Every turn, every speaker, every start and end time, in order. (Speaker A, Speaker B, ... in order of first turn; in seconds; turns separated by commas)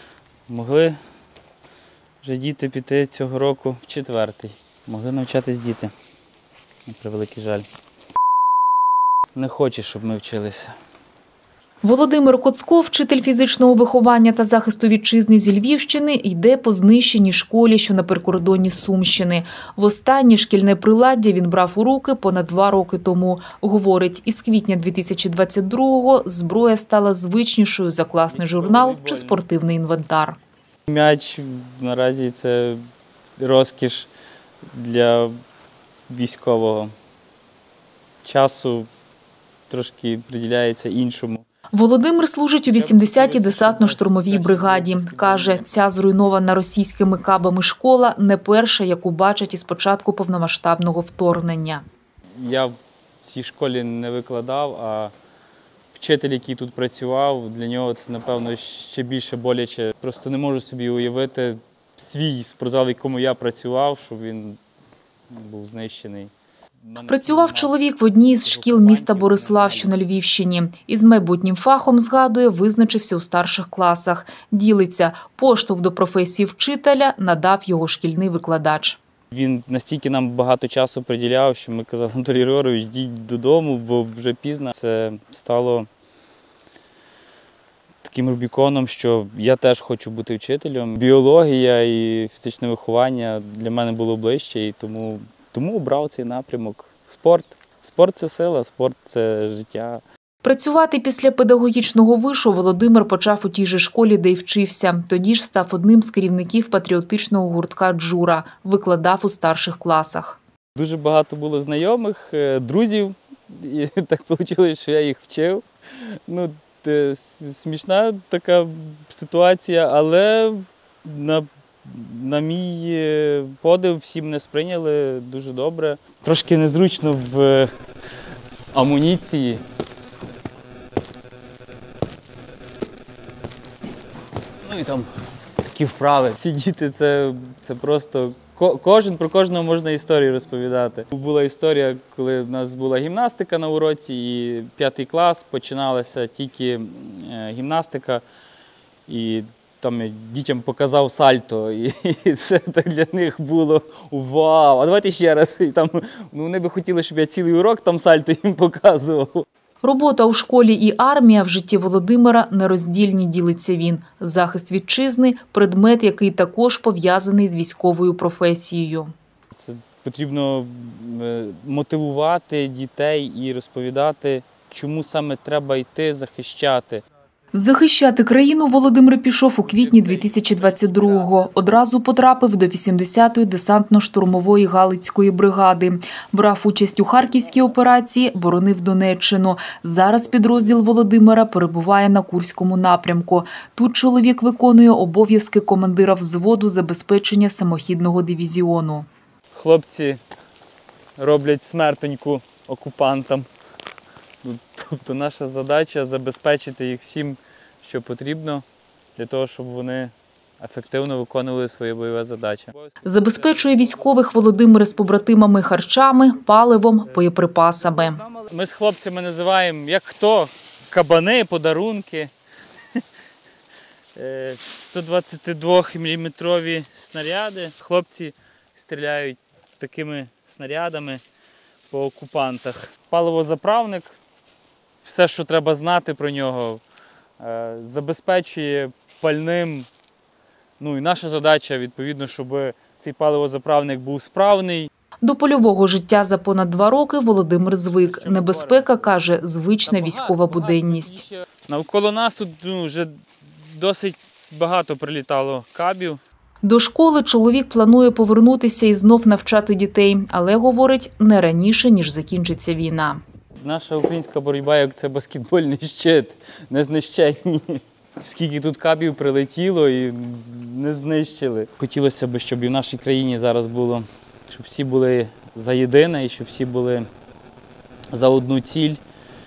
Speaker A: 0.5-1.0, Speaker A: 2.2-5.9, Speaker A: 6.8-7.7, Speaker A: 9.3-10.7, Speaker B: 11.8-30.4, Speaker A: 28.3-29.4, Speaker A: 30.9-32.8, Speaker A: 33.4-34.1, Speaker A: 34.7-35.3, Speaker A: 36.1-36.9, Speaker A: 38.2-38.9, Speaker A: 39.7-41.4, Speaker B: 41.7-51.8, Speaker A: 42.6-45.6, Speaker A: 52.4-55.1, Speaker A: 55.9-64.6, Speaker A: 65.3-69.9, Speaker B: 67.1-79.0, Speaker A: 79.3-85.9, Speaker A: 88.0-100.0, Speaker B: 100.4-110.4, Speaker A: 110.7-127.7, Speaker A: 128.7-129.6, Speaker A: 134.6-135.1, Speaker A: 135.7-148.2, Speaker A: 149.1-159.4, Speaker B: 159.8-169.1, Speaker A: 169.5-177.0, Speaker B: 177.5-199.1, Speaker A: 179.6-181.6, Speaker A: 199.5-200.2, Speaker A: 201.2-203.5, Speaker A: 204.4-208.6, Speaker A: 209.2-215.6, Speaker B: 213.0-218.2, Speaker A: 217.1-222.3, Speaker A: 224.2-231.2, Speaker A: 231.9-234.1, Speaker A: 235.0-236.8, Speaker A: 237.4-239.9, Speaker A: 240.8-244.9, Speaker B: 245.2-251.2, Speaker A: 247.9-249.2, Speaker A: 249.9-256.2, Speaker B: 256.6-263.2, Speaker A: 263.6-277.1, Speaker A: 278.1-279.0